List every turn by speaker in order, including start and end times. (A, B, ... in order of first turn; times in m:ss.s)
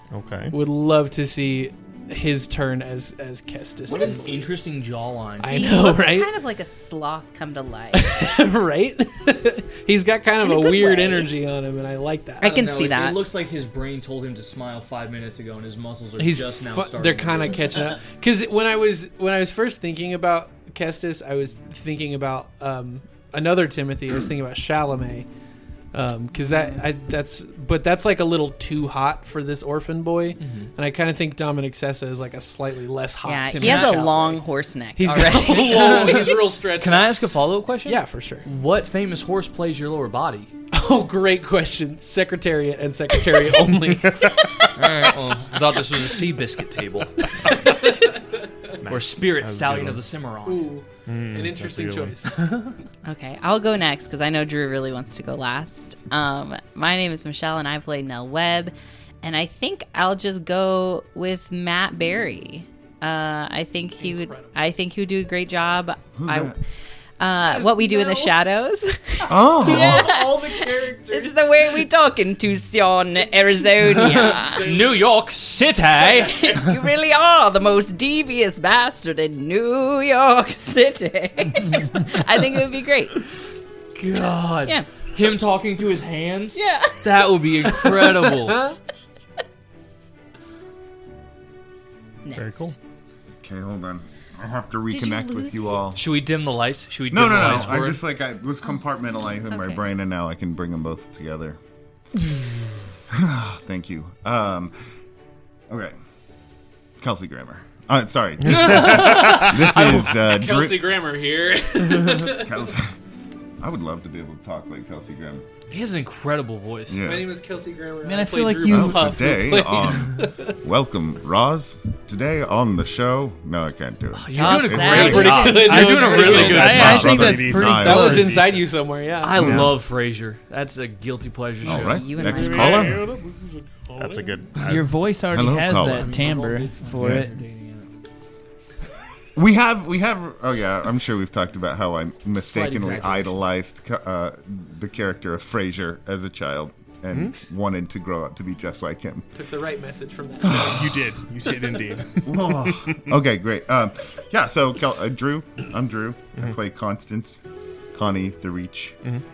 0:00.1-0:00.5 A
0:00.5-0:04.3 B
0:03.9-0:05.6 C
0:03.9-0:04.3 D
0:05.4-0:06.3 B
0:05.4-0:08.3 D
0:07.9-0:12.5 B
0:10.4-0:11.3 D
0:12.4-0:13.2 D
0:12.4-0:17.8 C
0:16.2-0:25.3 B
0:25.9-0:34.4 B
0:30.4-0:30.7 C
0:33.2-0:36.2 D
0:33.6-0:33.9 C
0:35.0-0:37.2 B
0:35.6-0:40.5 C
0:37.8-0:38.5 B
0:40.7-0:44.2 B
0:44.8-0:47.6 C
0:47.4-0:48.5 B
0:48.8-0:50.0 A
0:48.9-0:50.7 C
0:50.4-0:52.3 B
0:51.0-0:52.3 A
0:53.0-1:06.5 D
1:04.0-1:04.6 B
1:06.1-1:06.6 E
1:07.2-1:14.6 D
1:07.4-1:08.4 B
1:09.3-1:10.1 E
1:09.6-1:11.9 B
1:13.5-1:15.1 B
1:13.9-1:16.6 C
1:16.0-1:23.2 D
1:24.0-1:28.7 C
1:26.5-1:27.2 D
1:27.7-1:28.8 B
1:32.2-1:32.7 D
1:32.3-1:32.7 A
1:33.4-1:36.0 E
1:34.9-1:35.9 D
1:35.9-1:38.0 C
1:37.1-1:41.6 E
1:39.5-1:39.8 D
1:43.1-1:44.7 E
1:45.7-1:46.0 E
1:47.0-1:51.0 E
1:48.5-1:49.5 A
1:48.7-1:49.5 C
1:49.0-1:52.7 B
1:52.3-1:52.9 E
1:53.6-1:55.4 E
1:55.7-1:57.0 C
1:56.9-1:57.3 E
1:57.0-2:00.6 B
1:58.0-1:59.3 F
1:58.7-2:05.6 E
2:04.1-2:07.4 C
2:04.4-2:06.9 B
2:04.6-2:08.2 F
2:06.2-2:08.5 E
2:06.3-2:08.6 A
2:07.7-2:09.6 B
2:09.2-2:12.1 C
2:09.4-2:09.7 A
2:11.6-2:13.1 E
2:11.7-2:13.1 B
2:11.8-2:12.9 D
2:14.0-2:14.9 A
2:14.7-2:17.3 F
2:15.3-2:16.1 E
2:15.9-2:17.9 C
2:19.4-2:29.3 E
2:22.4-2:23.3 C
2:27.1-2:27.4 A
2:29.3-2:31.0 B
2:30.5-2:33.1 A
2:32.2-2:37.4 E
2:37.9-2:39.0 E